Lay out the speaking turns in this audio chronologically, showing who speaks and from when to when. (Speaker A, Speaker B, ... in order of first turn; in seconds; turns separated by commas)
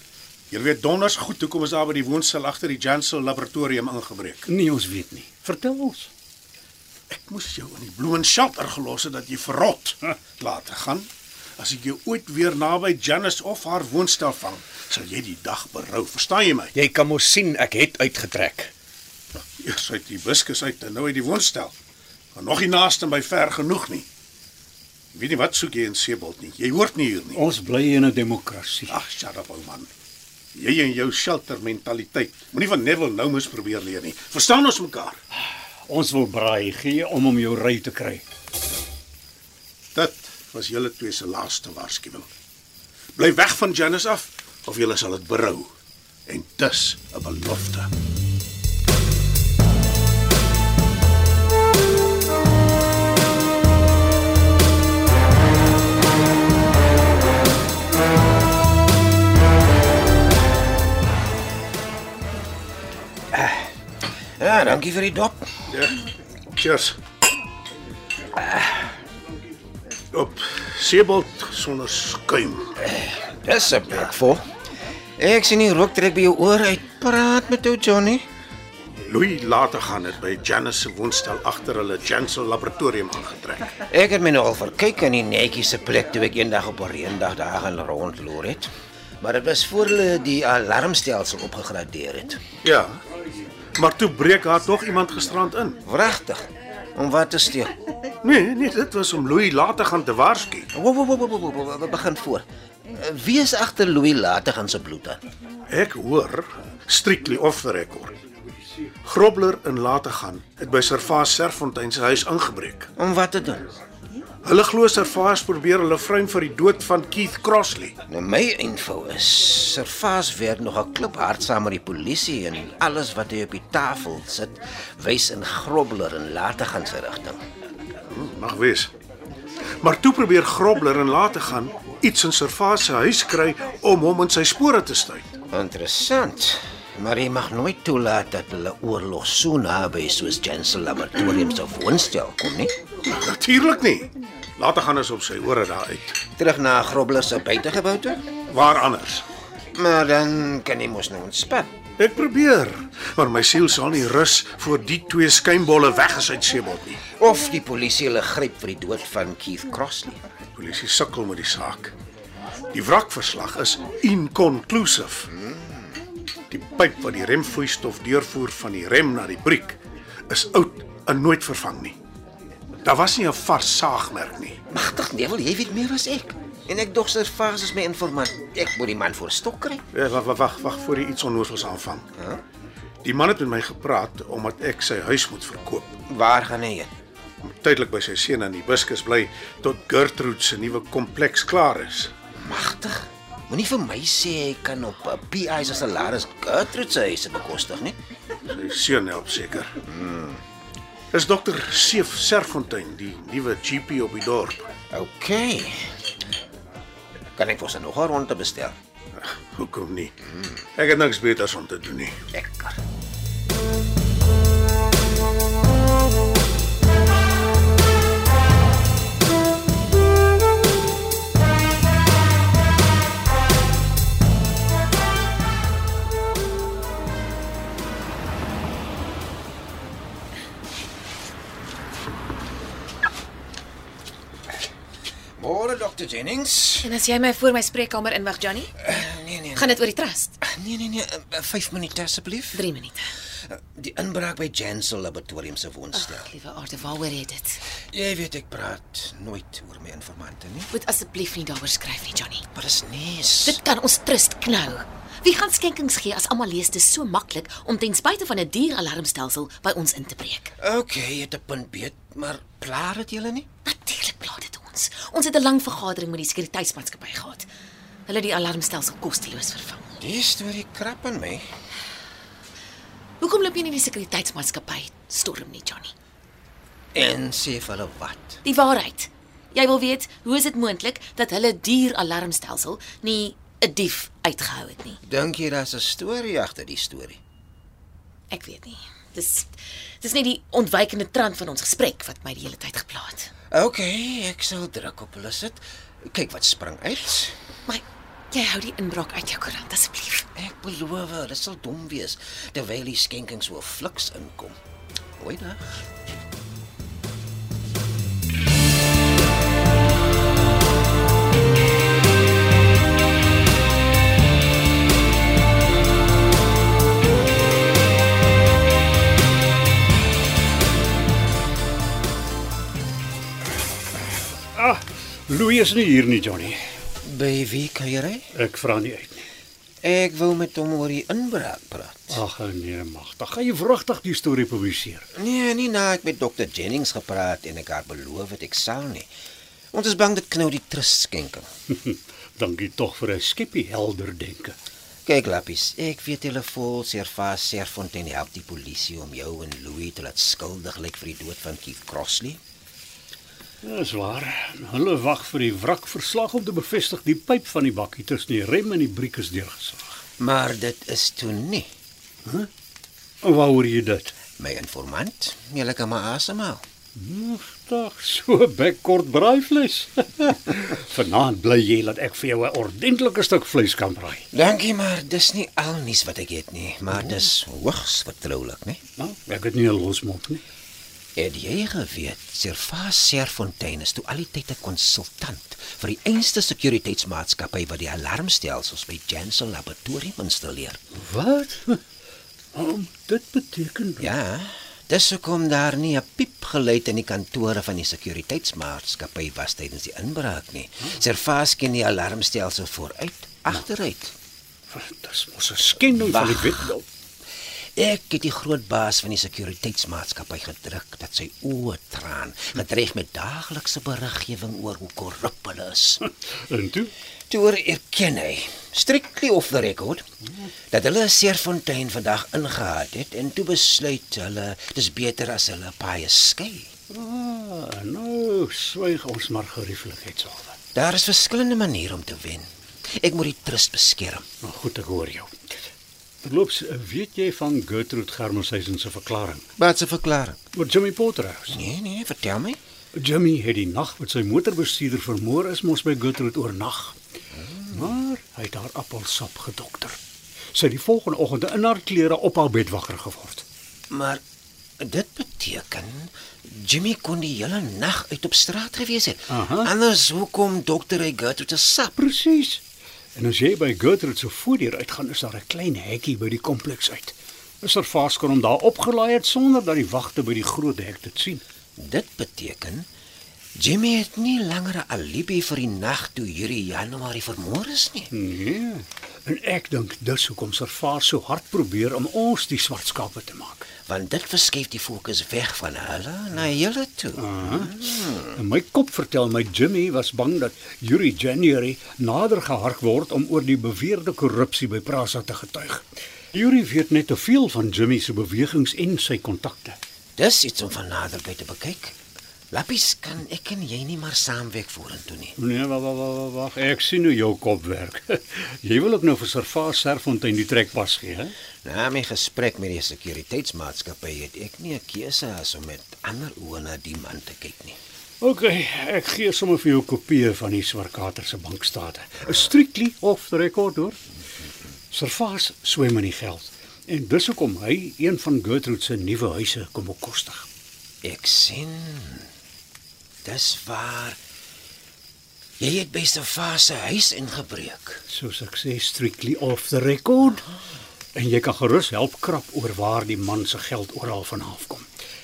Speaker A: 0.5-4.5, Speaker B: 4.5-6.1, Speaker A: 7.1-16.7, Speaker C: 16.7-18.7, Speaker A: 19.6-21.7, Speaker A: 22.4-24.1, Speaker A: 25.1-27.4, Speaker B: 27.3-29.0, Speaker A: 28.9-29.9, Speaker A: 30.6-35.2, Speaker B: 35.9-38.2, Speaker A: 40.0-42.3, Speaker A: 43.2-45.7, Speaker A: 46.3-47.9, Speaker D: 63.3-63.7, Speaker D: 64.4-65.5, Speaker A: 66.6-67.0, Speaker A: 70.1-72.7, Speaker D: 72.8-74.5, Speaker D: 75.2-78.2, Speaker A: 79.1-83.7, Speaker D: 83.8-88.7, Speaker D: 89.2-92.4, Speaker A: 92.6-93.0, Speaker A: 93.8-95.8, Speaker D: 95.8-97.8, Speaker A: 98.2-100.7, Speaker D: 100.7-105.2, Speaker A: 105.7-108.1, Speaker A: 109.0-112.9, Speaker D: 113.0-113.7, Speaker A: 114.5-118.0, Speaker D: 118.1-127.4, Speaker A: 128.1-128.9, Speaker A: 129.8-135.3, Speaker D: 135.5-142.7, Speaker A: 143.1-146.2, Speaker D: 146.4-148.3, Speaker A: 148.5-149.2, Speaker D: 149.7-151.7, Speaker A: 152.0-157.0, Speaker D: 157.1-160.2, Speaker A: 160.6-161.9, Speaker A: 162.7-165.3, Speaker A: 166.5-169.8, Speaker A: 170.3-172.0, Speaker A: 172.8-174.6, Speaker D: 174.7-179.8, Speaker A: 179.9-182.1, Speaker D: 182.2-182.4, Speaker A: 183.0-186.0, Speaker D: 186.1-186.9, Speaker A: 187.6-192.1, Speaker D: 192.4-198.0, Speaker A: 198.5-199.8, Speaker D: 199.8-200.4, Speaker A: 201.1-204.7, Speaker D: 204.9-206.0, Speaker D: 207.4-208.8, Speaker A: 209.2-210.1, Speaker A: 210.8-212.2, Speaker D: 212.3-212.8, Speaker D: 235.4-236.9, Speaker E: 236.8-238.7, Speaker D: 238.8-239.8, Speaker E: 239.6-240.4, Speaker D: 240.4-242.6, Speaker E: 242.5-243.1, Speaker D: 243.5-246.3, Speaker E: 245.9-247.6, Speaker D: 247.9-250.7, Speaker E: 250.7-252.5, Speaker D: 252.5-253.6, Speaker E: 253.4-260.5, Speaker D: 260.6-263.5, Speaker E: 263.6-267.5, Speaker E: 268.1-269.9, Speaker D: 270.0-271.4, Speaker E: 273.2-275.9, Speaker D: 276.9-278.4, Speaker E: 278.4-285.0, Speaker D: 285.0-287.2, Speaker E: 288.3-293.3, Speaker D: 293.5-297.4, Speaker E: 297.7-300.3, Speaker D: 300.4-304.6, Speaker D: 305.2-305.9, Speaker B: 324.5-326.6, Speaker D: 327.0-328.3, Speaker B: 328.3-329.3, Speaker D: 329.8-332.2, Speaker B: 332.1-335.1, Speaker D: 335.1-339.1, Speaker D: 339.7-341.5, Speaker B: 341.8-344.6, Speaker D: 345.1-352.4, Speaker B: 353.6-360.0, Speaker D: 360.2-361.7, Speaker B: 363.2-364.1, Speaker D: 364.4-366.6, Speaker B: 366.9-374.3, Speaker D: 374.3-378.8, Speaker B: 379.0-380.4, Speaker D: 381.2-390.8, Speaker B: 391.0-391.8, Speaker B: 392.5-394.1, Speaker D: 394.0-404.1, Speaker B: 404.7-406.9, Speaker D: 405.9-406.7, Speaker D: 407.8-416.0, Speaker B: 416.1-416.9, Speaker D: 417.3-420.1, Speaker D: 420.7-426.7, Speaker B: 426.9-430.6, Speaker D: 430.8-434.2, Speaker B: 434.4-435.6, Speaker B: 436.2-439.4, Speaker D: 439.6-440.4, Speaker B: 440.5-441.6, Speaker D: 441.5-442.6, Speaker B: 442.9-447.0, Speaker D: 447.4-447.9, Speaker B: 447.7-450.0, Speaker B: 450.5-453.4, Speaker D: 453.9-454.2, Speaker D: 454.8-462.0, Speaker B: 459.3-459.7, Speaker B: 462.0-462.6, Speaker B: 463.2-471.4, Speaker D: 471.8-472.9, Speaker D: 473.6-478.1, Speaker B: 478.1-483.7, Speaker D: 483.9-488.3, Speaker B: 487.2-499.8, Speaker D: 500.2-502.0, Speaker D: 502.5-505.4, Speaker B: 505.4-511.3, Speaker D: 511.6-517.8, Speaker B: 518.2-524.0, Speaker B: 524.9-530.5, Speaker D: 531.0-532.3, Speaker D: 533.2-534.2, Speaker D: 535.6-538.0, Speaker B: 538.1-540.5, Speaker B: 541.1-544.9